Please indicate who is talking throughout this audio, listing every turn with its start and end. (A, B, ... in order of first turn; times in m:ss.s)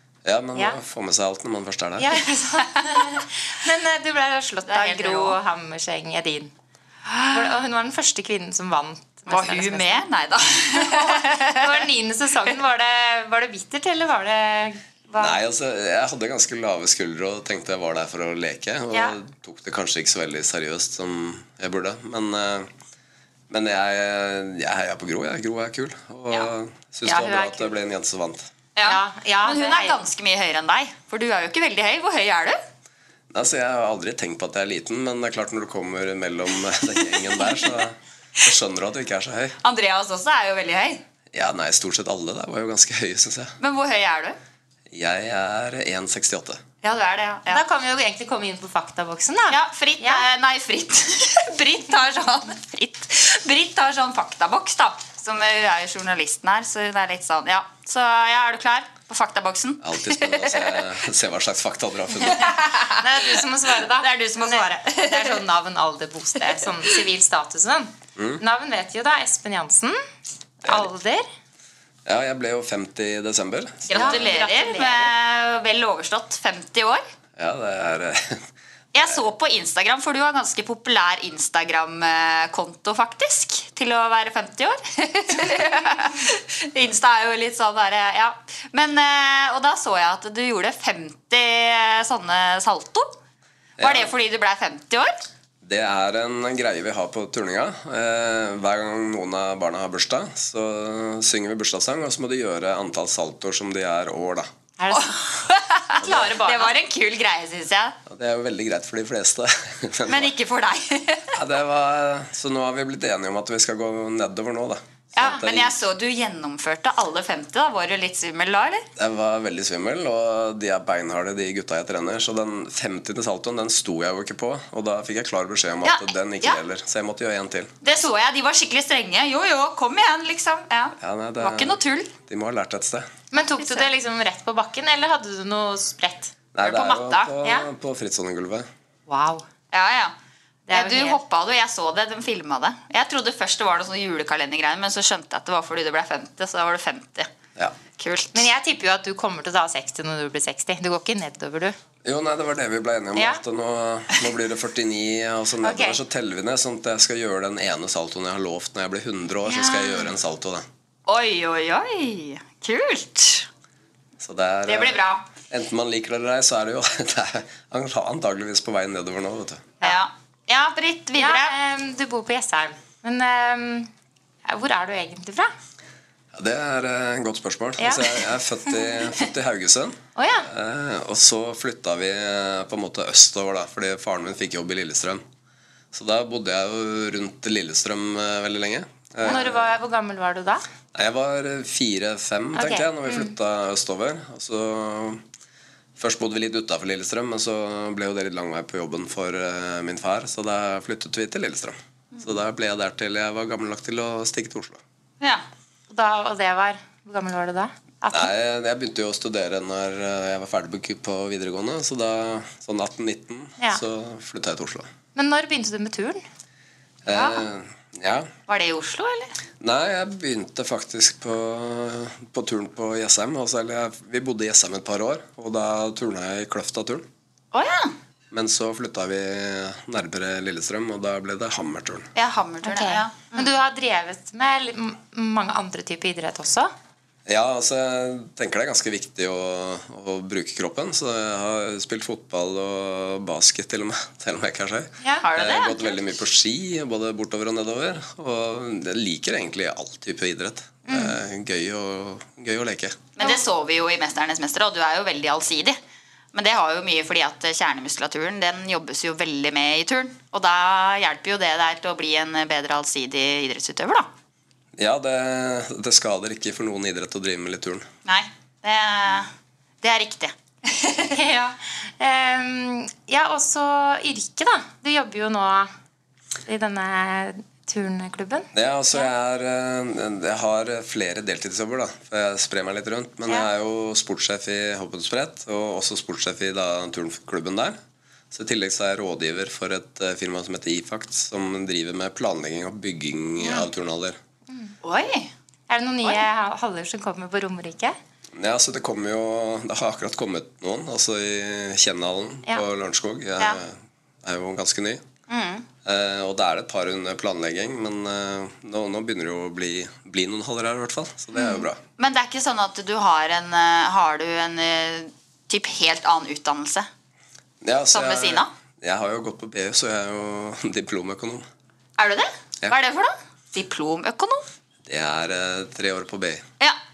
0:00.2-0:02.2 A
0:02.0-0:06.5 B
0:02.6-0:03.2 C
0:04.7-0:05.4 C
0:07.1-0:07.5 C
0:07.3-0:10.0 B
0:09.3-0:11.9 C
0:10.8-0:15.4 B
0:15.2-0:22.7 A
0:18.9-0:19.2 B
0:23.5-0:28.5 A
0:27.0-0:27.7 B
0:28.8-0:32.6 C
0:28.8-0:30.0 B
0:33.3-0:39.6 A
0:37.2-0:37.7 C
0:39.6-0:41.0 C
0:41.3-0:43.6 A
0:43.6-0:44.4 C
0:44.9-0:46.6 A
0:46.8-0:47.6 C
0:47.5-0:50.2 B
0:49.5-1:00.8 C
0:59.8-1:02.6 A
1:02.3-1:05.4 C
1:03.0-1:10.0 B
1:08.2-1:08.4 A
1:10.6-1:11.3 B
1:12.1-1:14.3 A
1:13.9-1:17.0 C
1:13.9-1:15.1 B
1:17.4-1:18.4 A
1:18.9-1:33.2 C
1:33.8-1:34.1 A
1:33.8-1:35.2 C
1:35.6-1:44.5 A
1:44.8-1:46.8 B
1:44.9-1:48.0 C
1:46.0-1:46.3 A
1:48.1-1:50.3 A
1:50.1-1:51.4 C
1:51.4-1:55.8 A
1:55.2-1:58.9 C
1:59.0-2:07.7 A
2:05.8-2:06.6 C
2:07.8-2:12.1 C
2:11.0-2:13.1 A
2:13.3-2:16.3 B
2:13.6-2:13.9 C
2:16.6-2:18.7 A
2:16.6-2:17.4 C
2:19.1-2:19.4 B
2:19.7-2:20.2 C
2:20.7-2:21.2 B
2:20.7-2:27.3 C
2:28.0-2:28.5 C
2:28.3-2:31.8 B
2:32.0-2:40.7 A
2:35.6-2:36.0 B
2:39.5-2:40.1 B
2:41.1-2:43.5 C
2:44.2-2:49.7 A
2:44.7-2:45.3 C
2:49.8-2:51.6 C
2:51.2-2:53.9 B
2:54.5-2:55.5 B
2:56.3-3:05.2 A
2:57.8-2:58.2 B
3:00.2-3:00.5 B
3:05.9-3:09.6 A
3:09.2-3:10.6 B
3:11.0-3:15.2 A
3:12.6-3:13.3 B
3:16.0-3:24.8 A
3:25.9-3:28.3 B
3:28.1-3:34.9 A
3:35.2-3:36.2 B
3:37.0-3:38.3 A
3:37.1-3:37.4 C
3:38.5-3:39.3 C
3:39.6-3:47.1 A
3:47.5-3:48.0 C
3:48.3-3:52.1 A
3:52.2-3:53.5 C
3:52.6-3:56.7 B
3:57.3-4:13.1 A
4:05.2-4:06.0 C
4:10.9-4:11.2 B
4:13.2-4:15.8 C
4:16.3-4:24.1 C
4:24.8-4:27.9 A
4:28.0-4:29.3 C
4:29.8-4:31.2 C
4:31.1-4:35.7 B
4:36.5-4:39.1 B
4:38.5-4:47.8 A
4:48.3-4:54.2 A
4:53.4-4:53.7 B
4:54.5-4:54.8 B
4:54.8-4:55.3 C
4:55.7-4:58.0 B
4:58.4-5:05.0 A
5:05.3-5:05.7 C
5:05.8-5:11.8 A
5:12.0-5:16.9 C
5:17.6-5:21.5 A
5:17.9-5:18.5 C
5:22.0-5:24.5 C
5:24.9-5:26.4 A